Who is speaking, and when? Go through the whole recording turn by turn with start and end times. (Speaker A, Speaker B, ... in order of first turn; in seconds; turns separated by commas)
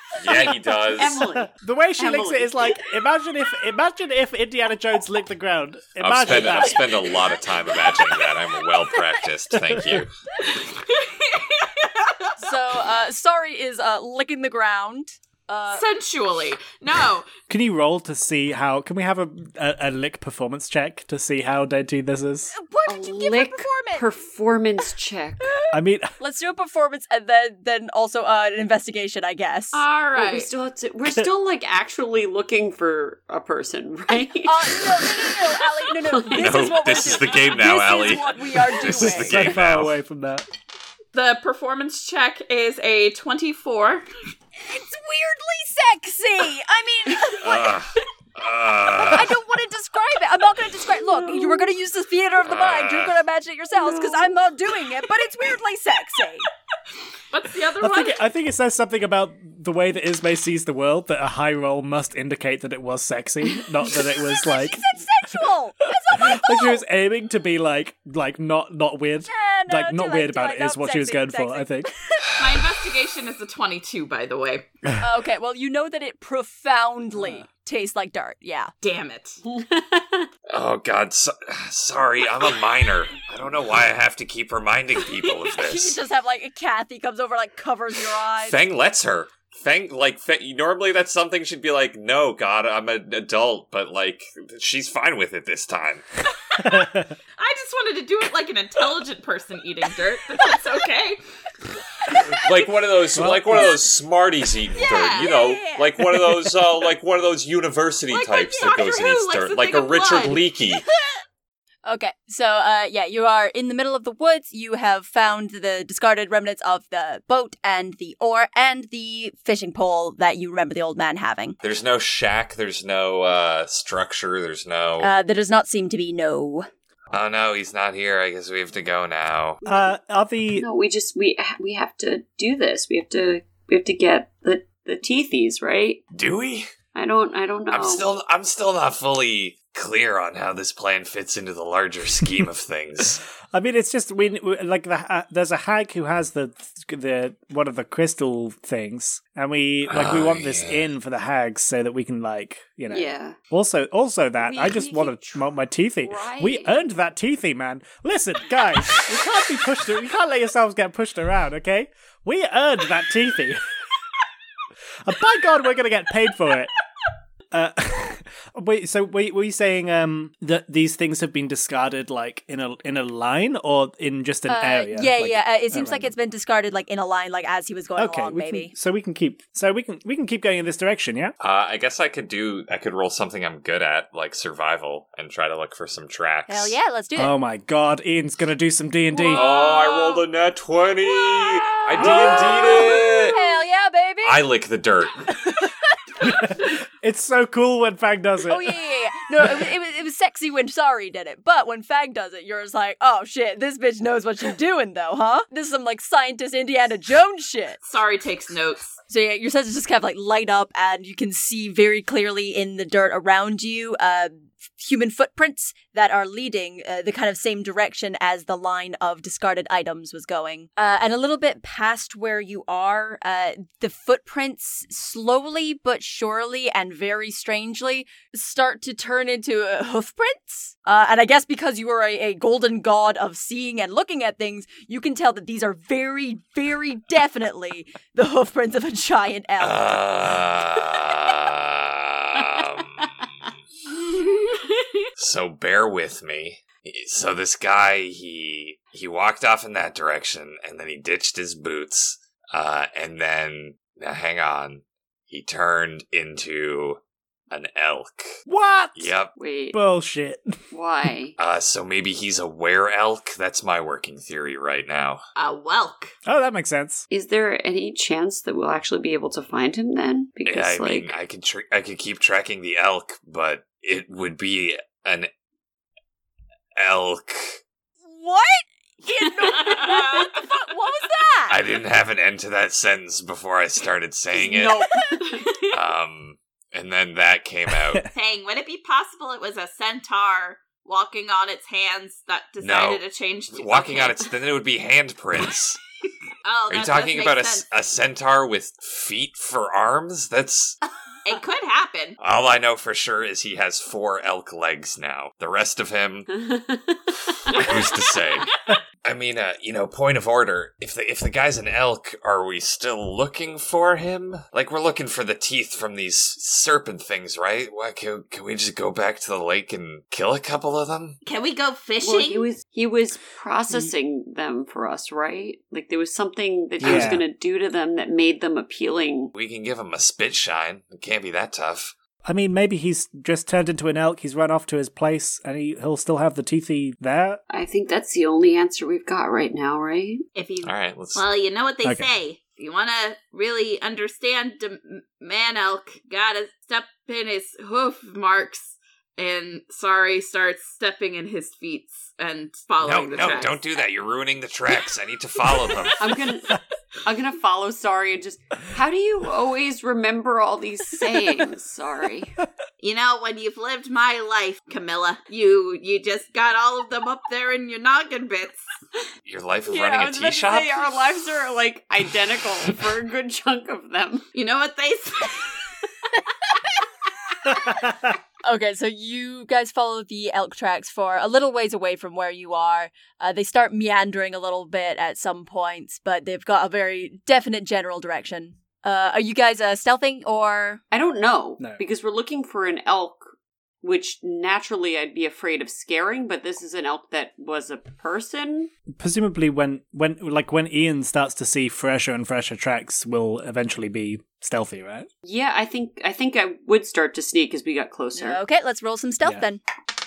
Speaker A: 0.1-1.2, Speaker B: 0.9-2.8, Speaker C: 1.3-7.0, Speaker A: 6.0-10.1, Speaker C: 9.5-10.0, Speaker D: 10.4-12.4, Speaker E: 12.4-15.8, Speaker D: 15.7-17.3, Speaker C: 17.5-22.5, Speaker E: 22.5-24.1, Speaker B: 22.9-25.6, Speaker E: 25.4-29.8, Speaker C: 25.7-26.1, Speaker D: 29.7-30.5, Speaker B: 30.1-37.1, Speaker E: 34.4-39.5, Speaker A: 36.4-39.9, Speaker C: 38.9-40.4, Speaker D: 41.1-44.1, Speaker E: 44.7-47.8, Speaker A: 47.4-49.3, Speaker E: 48.9-56.5, Speaker B: 51.1-51.7, Speaker A: 52.4-53.2, Speaker B: 53.7-54.4, Speaker D: 57.3-58.2, Speaker C: 57.8-64.8, Speaker E: 63.9-66.8, Speaker C: 66.1-71.9, Speaker E: 69.3-72.3, Speaker D: 72.4-74.7, Speaker E: 75.0-78.7, Speaker D: 78.8-79.4, Speaker B: 79.4-80.3, Speaker A: 80.5-86.0, Speaker E: 85.5-88.6, Speaker A: 88.4-96.0, Speaker D: 96.5-96.8, Speaker C: 96.6-97.1, Speaker D: 97.4-101.2, Speaker A: 102.3-110.8, Speaker C: 103.1-103.7, Speaker D: 104.8-105.4, Speaker E: 105.0-105.8, Speaker D: 108.1-110.4, Speaker E: 111.8-121.6, Speaker A: 121.6-125.1, Speaker E: 125.0-126.7, Speaker A: 127.1-129.6, Speaker C: 129.6-130.7, Speaker B: 130.5-136.0, Speaker A: 136.1-136.7, Speaker B: 136.9-138.1, Speaker A: 137.7-143.2, Speaker C: 143.5-163.6, Speaker A: 149.9-150.8, Speaker B: 152.9-153.4, Speaker B: 154.4-155.5, Speaker B: 156.0-156.9, Speaker C: 165.0-166.7, Speaker C: 167.5-176.1, Speaker E: 174.5-178.7, Speaker C: 178.0-181.3, Speaker A: 181.4-186.8, Speaker E: 186.5-187.3, Speaker C: 187.2-189.5, Speaker A: 189.3-193.4, Speaker D: 189.8-190.2, Speaker E: 191.1-194.4, Speaker C: 192.0-192.4, Speaker A: 194.2-195.3, Speaker C: 196.2-198.7, Speaker E: 198.5-207.8, Speaker D: 207.8-209.0, Speaker E: 209.1-240.1, Speaker A: 239.6-243.1, Speaker D: 244.0-245.0, Speaker A: 245.2-257.0, Speaker A: 257.5-258.4, Speaker C: 258.4-259.1, Speaker A: 258.9-259.3, Speaker B: 259.4-259.8, Speaker C: 259.7-260.6, Speaker B: 260.7-261.3, Speaker A: 261.4-265.2, Speaker D: 265.4-266.1, Speaker C: 266.2-267.0, Speaker B: 267.1-271.2, Speaker A: 270.4-275.3, Speaker A: 276.8-277.6, Speaker E: 278.1-281.6, Speaker D: 279.6-280.4, Speaker A: 281.5-284.9, Speaker B: 284.3-285.6, Speaker A: 285.7-288.1, Speaker D: 288.1-294.3, Speaker A: 292.6-295.8, Speaker D: 296.4-297.6, Speaker A: 296.7-300.8, Speaker D: 301.2-302.2, Speaker A: 302.2-306.3, Speaker B: 306.3-307.7, Speaker A: 307.4-308.5, Speaker A: 309.0-321.2, Speaker D: 321.2-322.5, Speaker B: 322.0-329.3, Speaker C: 326.8-327.2, Speaker A: 326.8-327.1, Speaker A: 329.3-331.9, Speaker C: 332.2-337.4, Speaker B: 337.5-340.2, Speaker D: 340.4-353.6, Speaker A: 340.6-341.2, Speaker A: 352.8-356.1, Speaker B: 356.0-362.4, Speaker D: 362.8-368.7, Speaker A: 369.2-371.1, Speaker B: 369.7-374.2, Speaker D: 374.3-375.6, Speaker E: 378.4-390.8, Speaker B: 390.9-393.3, Speaker B: 393.8-398.7, Speaker C: 398.9-405.1, Speaker B: 405.2-408.4, Speaker E: 408.1-409.6